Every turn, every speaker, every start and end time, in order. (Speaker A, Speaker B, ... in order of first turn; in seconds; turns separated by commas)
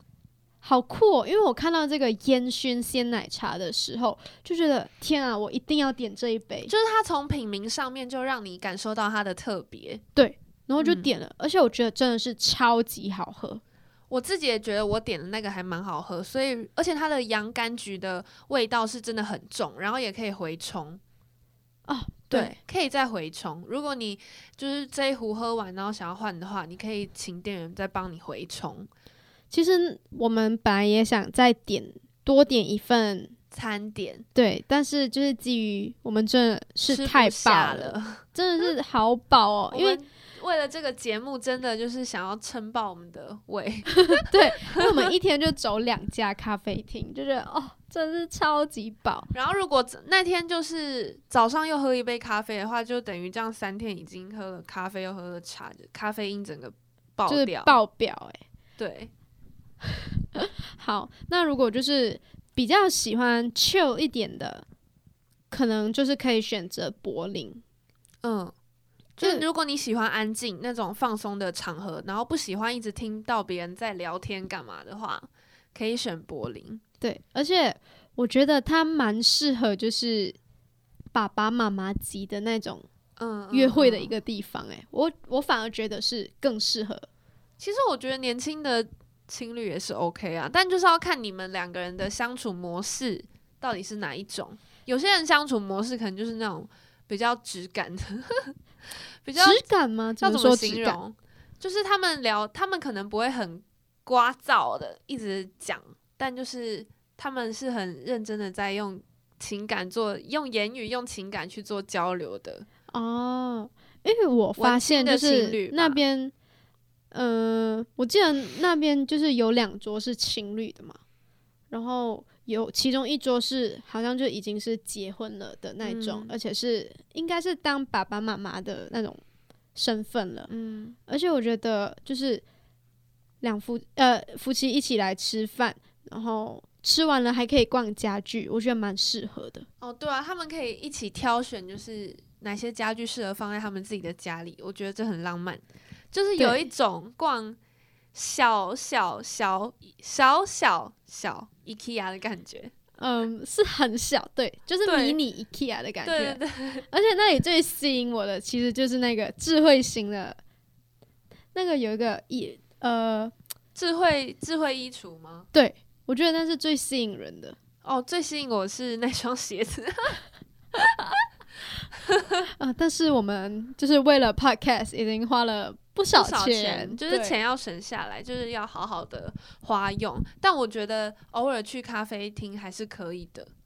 Speaker A: 0.6-6.7, Speaker B: 6.7-10.0, Speaker A: 10.1-13.6, Speaker B: 10.8-11.1, Speaker B: 14.1-21.0, Speaker A: 21.9-22.5, Speaker B: 22.3-28.9, Speaker A: 29.5-33.3, Speaker B: 33.5-34.2, Speaker A: 34.3-40.0, Speaker B: 36.9-38.2, Speaker B: 39.7-44.9, Speaker A: 44.1-49.3, Speaker B: 49.3-57.8, Speaker A: 57.3-58.4, Speaker B: 58.8-59.1, Speaker A: 60.0-64.6, Speaker A: 65.5-67.6, Speaker B: 68.2-68.5, Speaker B: 69.2-76.8, Speaker A: 77.0-80.4, Speaker A: 81.1-82.8, Speaker B: 83.2-84.1, Speaker A: 83.5-87.0, Speaker B: 87.6-98.5, Speaker B: 99.2-99.6, Speaker A: 99.3-101.0, Speaker B: 100.2-112.7, Speaker A: 112.9-116.3, Speaker B: 114.6-116.0, Speaker A: 117.1-121.0, Speaker A: 121.7-129.2, Speaker B: 125.8-126.3, Speaker A: 129.7-130.5, Speaker B: 130.5-130.9, Speaker A: 131.1-132.4, Speaker A: 133.4-139.7, Speaker B: 139.8-147.6, Speaker A: 146.4-146.7, Speaker B: 148.1-152.7, Speaker A: 153.0-160.4, Speaker B: 154.8-155.2, Speaker B: 156.0-156.8, Speaker A: 161.5-163.3, Speaker B: 163.7-165.5, Speaker A: 165.5-167.6, Speaker B: 167.8-170.2, Speaker A: 172.6-177.4, Speaker B: 176.1-183.5